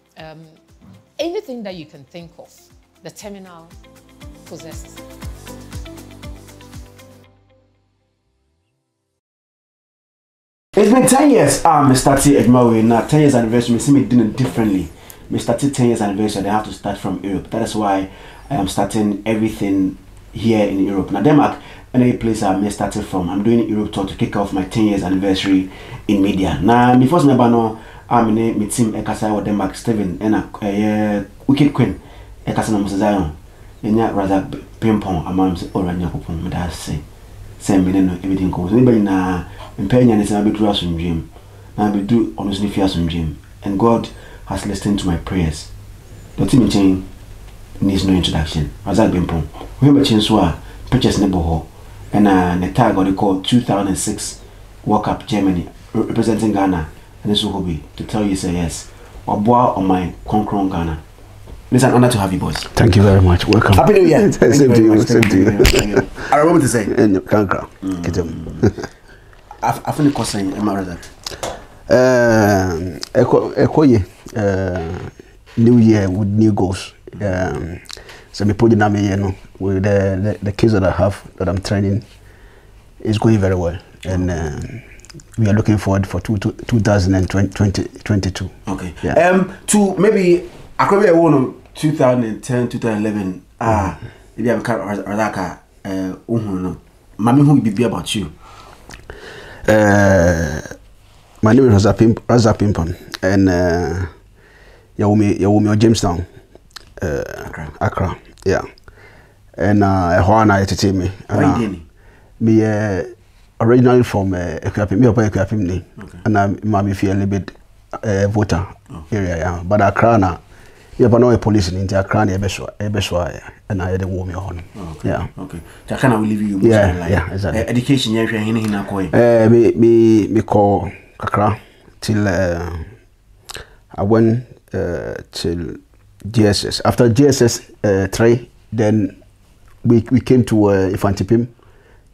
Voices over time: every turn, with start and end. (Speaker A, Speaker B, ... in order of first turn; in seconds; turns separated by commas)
Speaker A: 0.2-0.6, Speaker A: 1.2-3.7, Speaker A: 4.5-5.0, Speaker B: 10.7-37.0, Speaker B: 37.6-45.7, Speaker B: 46.4-47.0, Speaker B: 47.8-61.0, Speaker B: 61.7-62.7, Speaker C: 62.7-66.2, Speaker B: 63.7-66.9, Speaker C: 66.9-68.9, Speaker B: 67.8-68.7, Speaker B: 69.6-71.0, Speaker C: 71.9-82.0, Speaker C: 83.0-84.8, Speaker C: 85.3-89.2, Speaker B: 88.7-98.3, Speaker C: 99.7-100.7, Speaker C: 101.4-104.1, Speaker C: 105.0-106.2, Speaker C: 107.0-108.7, Speaker C: 109.6-111.7, Speaker B: 111.3-111.8, Speaker C: 112.4-113.1, Speaker C: 113.6-120.4, Speaker B: 116.0-116.2, Speaker C: 121.0-125.3, Speaker B: 124.8-129.1, Speaker C: 126.6-127.6, Speaker C: 129.1-132.9, Speaker C: 133.9-139.2, Speaker C: 139.8-141.5